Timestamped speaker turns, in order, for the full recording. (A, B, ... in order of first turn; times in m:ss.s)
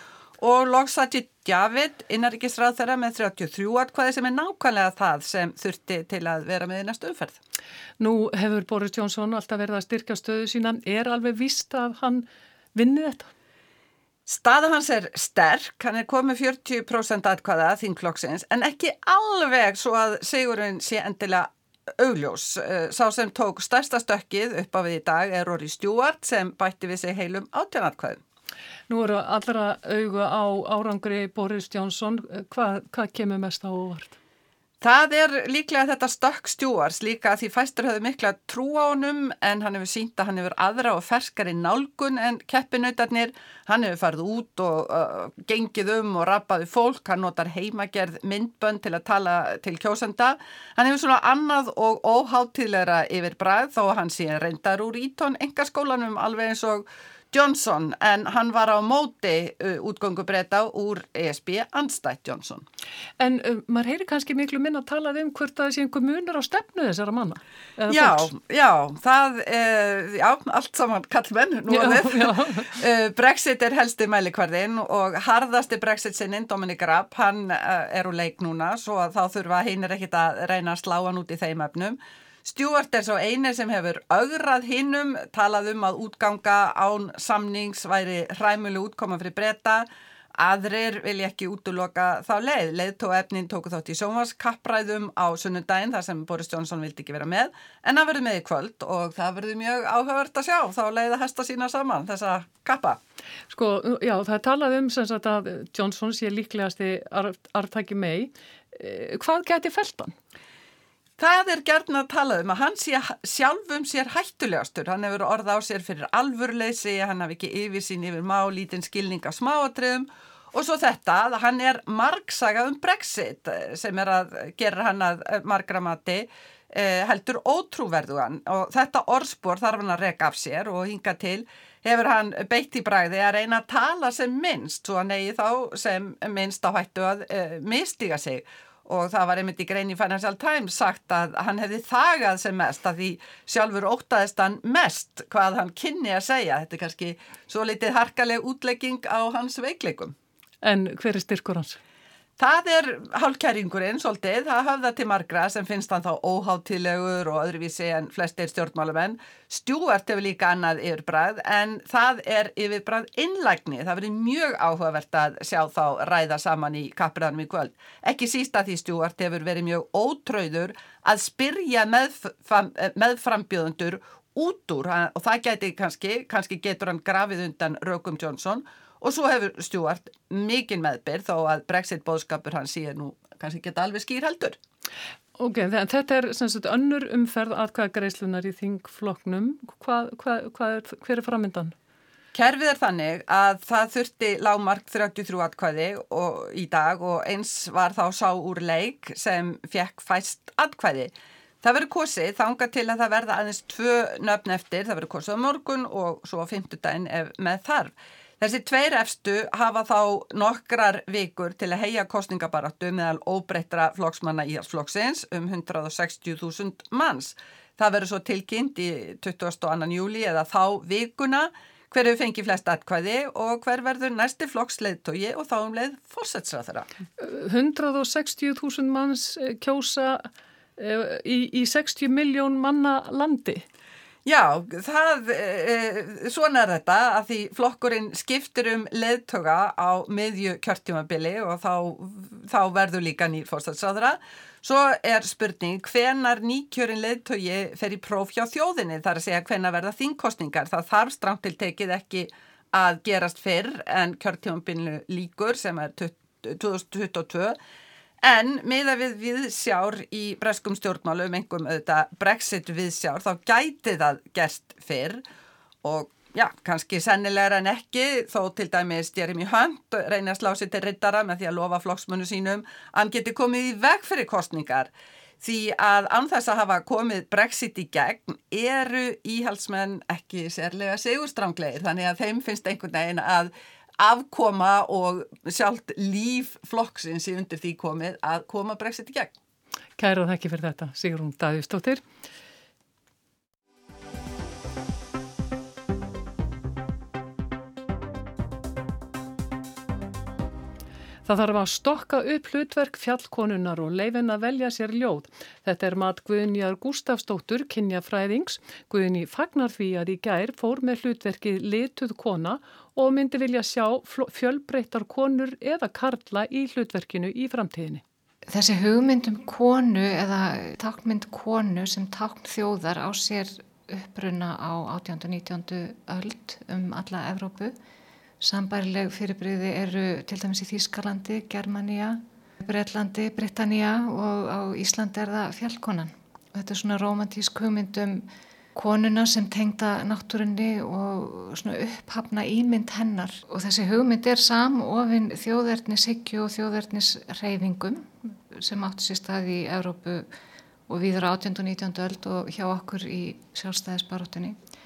0:00.4-0:07.4 A
0:08.0-0:13.3 B
0:14.3-0:28.2 A
0:28.9-0:34.2 B
0:34.8-1:02.6 A
1:03.2-1:08.3 B
1:07.9-1:43.0 A
1:11.7-1:12.7 B
1:43.5-1:50.2 B
1:51.2-2:30.1 A
2:30.6-2:31.8 B
2:32.4-3:04.6 A
3:05.4-3:11.8 B
3:12.3-3:46.9 A
3:47.2-3:53.6 B
3:54.2-4:17.6 A
4:18.2-4:25.2 A
4:25.8-4:34.9 A
4:35.4-4:49.3 A
4:50.0-4:52.0 B
5:01.2-5:18.0 B
5:18.5-5:27.8 C
5:28.4-5:50.3 C
5:50.9-5:54.6 C